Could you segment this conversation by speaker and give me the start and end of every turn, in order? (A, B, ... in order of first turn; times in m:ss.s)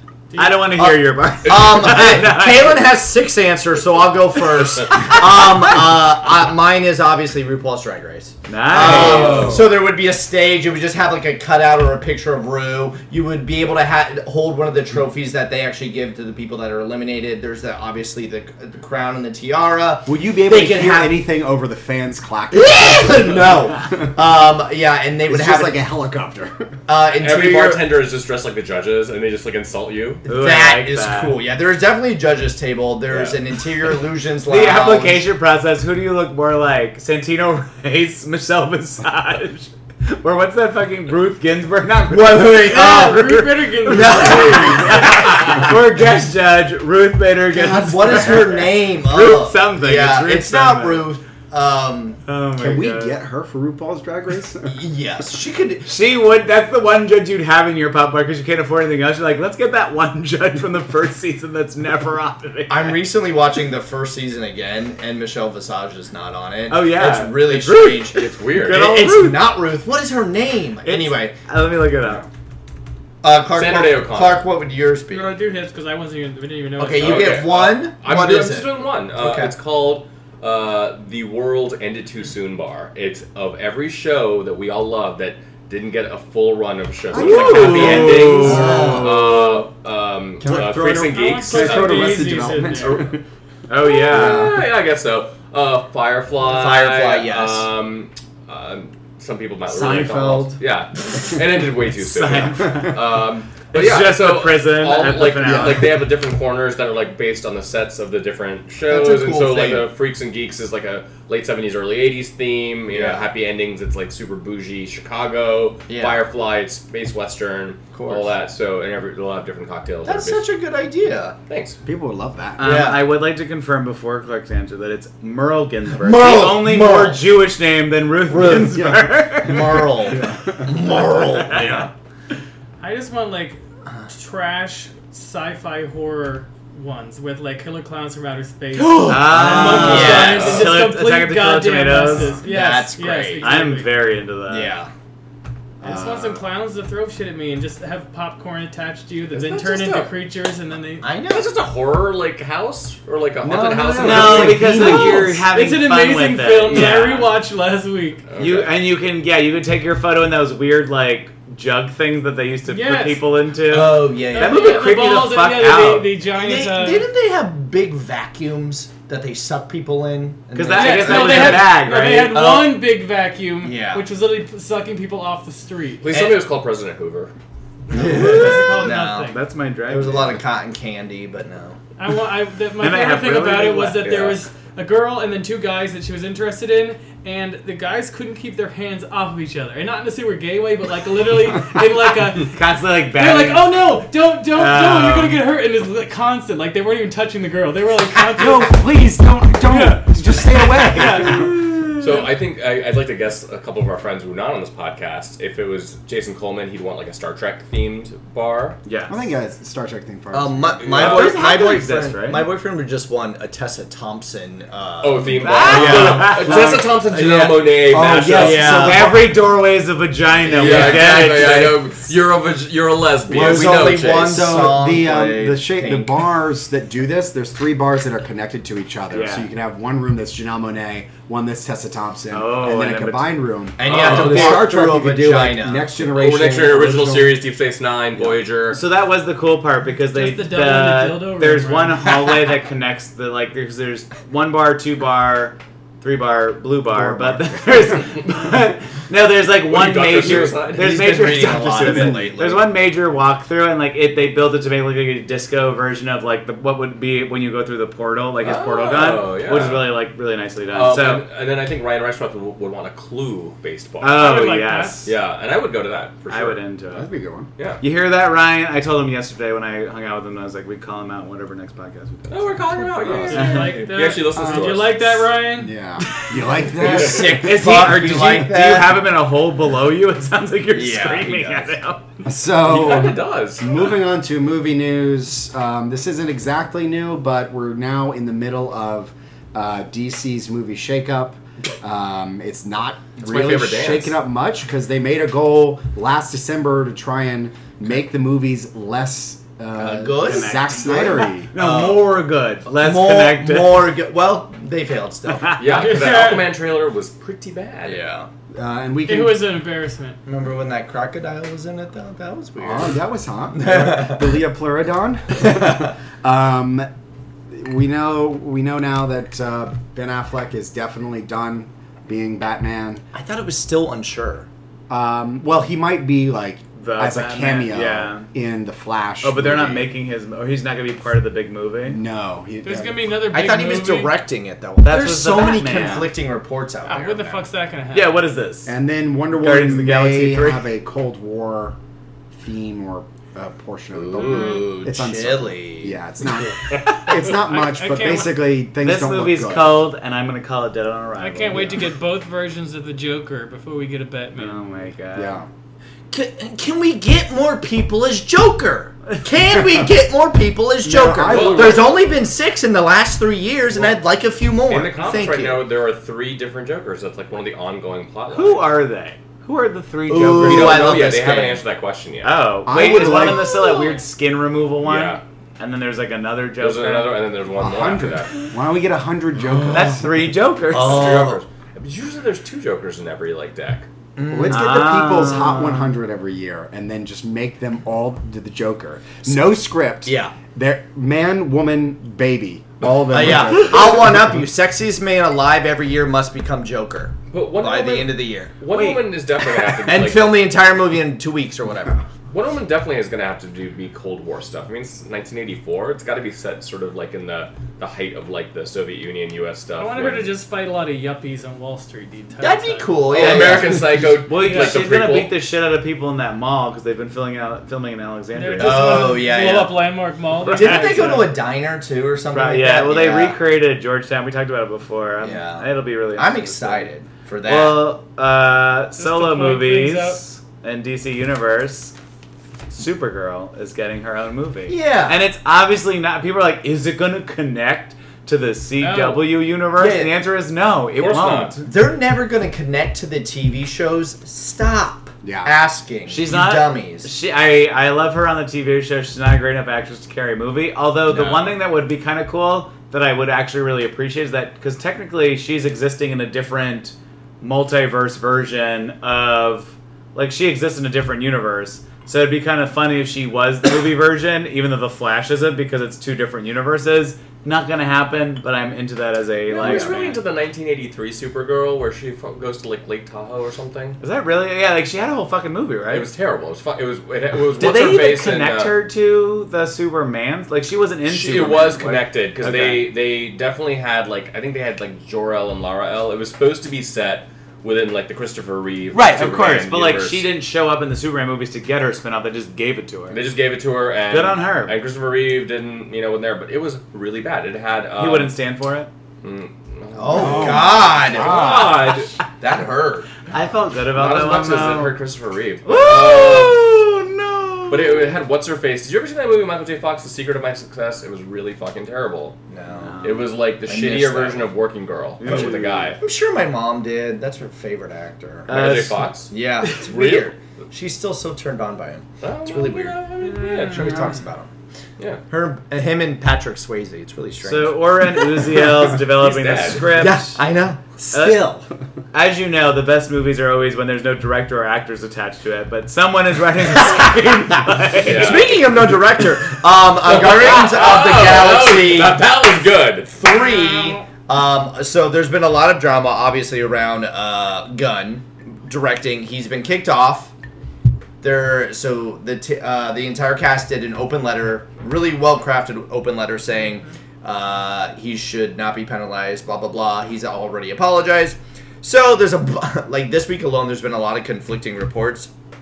0:00.3-0:00.7 A
0:00.4-0:02.8 B
0:00.7-0:21.2 C
0:08.4-0:09.6 B
0:08.9-0:09.7 D
0:08.9-0:09.6 E
0:20.0-0:24.1 D
0:22.5-0:25.8 C
0:25.3-0:26.7 D
0:26.9-0:27.9 C
0:27.1-0:30.2 E
0:30.2-0:35.2 C
0:30.2-0:31.4 B
0:34.5-0:51.1 B
0:42.1-0:45.6 C
0:42.6-0:45.1 A
0:47.5-0:52.2 C
0:52.2-0:53.1 B
0:52.6-0:54.8 D
0:54.6-0:55.9 C
0:55.8-1:03.0 B
1:02.7-1:11.3 C
1:06.7-1:09.5 B
1:08.1-1:08.9 E
1:10.8-1:12.2 B
1:13.2-1:15.3 C
1:13.5-1:14.4 E
1:15.1-1:17.5 A
1:16.8-1:19.5 C
1:17.0-1:33.2 E
1:27.1-1:29.6 D
1:27.1-1:28.9 B
1:27.6-1:29.2 C
1:30.4-1:33.2 D
1:31.1-1:33.0 A
1:33.7-1:34.6 B
1:33.8-2:00.4 E
1:34.1-1:34.6 D
1:36.4-1:37.7 C
1:39.8-1:40.5 B
1:39.8-1:40.4 D
1:42.0-1:43.0 B
1:43.7-1:46.0 B
1:45.4-1:45.9 D
1:48.9-1:49.9 C
1:52.9-1:53.3 C
1:55.9-1:56.2 C
1:57.9-1:58.3 C
2:00.0-2:01.4 C
2:01.5-2:01.8 E
2:01.8-2:02.9 D
2:02.6-2:09.9 B
2:02.6-2:03.1 C
2:05.9-2:07.3 C
2:08.3-2:08.8 C
2:08.6-2:09.1 D
2:09.4-2:11.9 C
2:09.6-2:10.7 D
2:12.8-2:24.1 A
2:18.7-2:20.8 C
2:19.0-2:22.4 B
2:20.2-2:20.6 E
2:22.3-2:23.7 C
2:23.4-2:24.7 B
2:24.5-2:24.9 C
2:25.8-2:26.4 D
2:25.8-2:31.1 A
2:29.3-2:30.1 E
2:31.0-2:31.5 C
2:31.3-2:34.8 E
2:33.4-2:35.5 D
2:34.0-2:37.4 B
2:34.7-2:38.3 A
2:38.3-2:38.8 E
2:38.4-2:46.1 B
2:42.7-2:43.2 A
2:43.7-2:44.9 C
2:44.3-2:47.1 A
2:46.3-2:52.8 C
2:50.5-2:52.5 B
2:50.7-2:56.1 A
2:53.6-2:54.0 C
2:56.0-2:57.3 E
2:56.1-2:56.4 C
2:57.9-2:59.4 A
2:57.9-2:59.3 C
2:57.9-3:00.4 B
2:59.9-3:01.8 C
3:02.0-3:18.8 A
3:02.8-3:04.1 B
3:04.0-3:04.4 E
3:12.4-3:14.0 B
3:14.5-3:15.4 B
3:18.3-3:21.6 D
3:19.6-3:21.6 A
3:21.5-3:22.2 B
3:22.0-3:28.8 E
3:28.8-3:29.2 B
3:29.1-3:30.8 D
3:30.3-3:37.7 C
3:30.8-3:31.4 E
3:30.9-3:32.5 B
3:35.0-3:38.9 E
3:35.3-3:36.9 B
3:35.8-3:36.9 D
3:37.9-3:39.4 D
3:38.3-3:39.0 C
3:38.3-3:41.9 B
3:40.4-3:44.5 E
3:40.6-3:40.9 C
3:43.3-3:46.2 C
3:43.3-3:57.4 D
3:49.1-3:49.4 B
3:52.3-3:53.4 B
3:53.8-3:55.9 C
3:53.8-3:54.6 E
3:56.1-3:58.8 E
3:58.7-4:21.2 B
4:00.1-4:02.3 A
4:06.9-4:08.1 D
4:09.6-4:11.2 E
4:10.4-4:12.7 C
4:11.8-4:12.2 D
4:18.4-4:20.0 E
4:20.7-4:24.3 E
4:24.0-4:25.1 B
4:24.1-4:25.1 A
4:25.0-4:26.6 E
4:26.3-4:27.1 B
4:26.9-4:27.5 D
4:27.8-4:33.8 B
4:32.3-4:35.3 E
4:33.0-4:33.6 D
4:33.3-4:35.7 A
4:34.4-4:34.8 D
4:35.5-4:37.8 D
4:36.7-4:39.0 C
4:36.9-4:42.0 B
4:40.7-4:41.7 C
4:42.2-5:01.5 D
4:42.6-4:43.6 E
4:53.2-4:54.2 E
4:59.8-5:05.5 C
5:00.2-5:03.9 B
5:05.4-5:05.9 B
5:05.6-5:08.0 E
5:05.7-5:06.5 A
5:07.8-5:08.3 C
5:08.5-5:09.4 D
5:09.0-5:10.2 A
5:10.2-5:13.0 C
5:12.6-5:16.9 D
5:13.5-5:14.4 C
5:15.4-5:15.9 C
5:17.5-5:23.0 D
5:23.1-5:24.5 C
5:24.9-5:29.9 D
5:26.8-5:28.3 B
5:29.2-5:32.0 B
5:31.8-5:33.1 D
5:32.6-5:34.2 A
5:33.3-5:37.4 C
5:34.8-5:36.1 B
5:36.8-5:38.2 A
5:37.9-5:38.8 B
5:38.6-5:41.8 D
5:39.3-5:40.7 B
5:42.3-5:49.8 D
5:43.9-5:46.0 C
5:44.2-5:44.7 A
5:47.3-5:48.4 A
5:48.8-5:51.9 B
5:51.2-5:54.6 A
5:51.5-5:51.8 D
5:54.3-5:55.4 B
5:55.1-5:55.5 D
5:56.1-6:05.6 C
6:00.8-6:01.9 D
6:01.2-6:02.0 E
6:04.7-6:08.8 E
6:08.3-6:11.0 B
6:10.1-6:11.6 C
6:10.4-6:12.4 E
6:12.2-6:17.2 B
6:12.6-6:13.6 D
6:14.8-6:15.2 E
6:16.6-6:18.3 E
6:17.6-6:20.3 D
6:19.5-6:20.0 C
6:19.7-6:21.1 B
6:20.7-6:21.4 C
6:20.7-6:23.9 E
6:24.2-6:24.8 C
6:24.3-6:34.2 D
6:24.5-6:26.0 B
6:30.0-6:30.3 C
6:33.1-6:38.5 C
6:37.3-6:40.5 E
6:38.7-6:39.0 B
6:39.4-6:42.0 C
6:42.3-6:50.3 E
6:49.8-6:53.1 A
6:52.4-6:54.1 C
6:53.1-6:55.3 E
6:53.2-6:59.2 B
6:54.4-6:54.8 A
6:58.3-7:01.3 A
6:58.6-6:59.8 C
7:00.4-7:01.2 B
7:00.4-7:03.4 C
7:02.3-7:06.9 B
7:05.2-7:07.9 C
7:07.4-7:11.9 B
7:08.9-7:10.2 A
7:12.7-7:21.7 B
7:14.7-7:15.2 C
7:18.8-7:19.4 A
7:19.7-7:20.2 C
7:20.9-7:21.6 E
7:21.6-7:27.1 C
7:25.2-7:25.5 D
7:26.1-7:50.2 B
7:31.1-7:31.6 C
7:49.5-7:54.0 E
7:54.0-7:56.1 B
7:55.9-7:58.8 E
7:57.6-8:02.9 B
8:01.0-8:10.3 E
8:08.9-8:13.2 B
8:13.1-8:18.4 E
8:14.1-8:14.8 B
8:18.0-8:18.9 B
8:19.2-8:22.2 E
8:19.9-8:21.8 C
8:20.1-8:21.7 D
8:22.4-8:23.1 C
8:23.3-8:24.9 B
8:23.9-8:26.7 E
8:25.6-8:28.2 B
8:27.7-8:32.4 E
8:32.5-8:33.1 C
8:32.8-8:33.2 B
8:33.0-8:36.0 E
8:33.6-8:34.5 C
8:35.2-8:35.9 B
8:35.3-8:38.6 C
8:38.5-8:39.1 B
8:38.5-8:40.3 E
8:39.3-8:44.5 C
8:42.2-8:44.1 E
8:43.4-8:44.1 A
8:45.3-8:48.8 C
8:47.4-8:50.4 B
8:48.8-8:50.1 E
8:49.9-8:51.6 C
8:51.1-8:51.5 B
8:51.2-8:51.5 D
8:52.1-8:58.5 B
8:58.0-8:58.6 E
8:58.0-9:02.2 C
9:00.0-9:03.2 E
9:03.2-9:10.3 C
9:03.2-9:04.0 A
9:11.2-9:25.3 C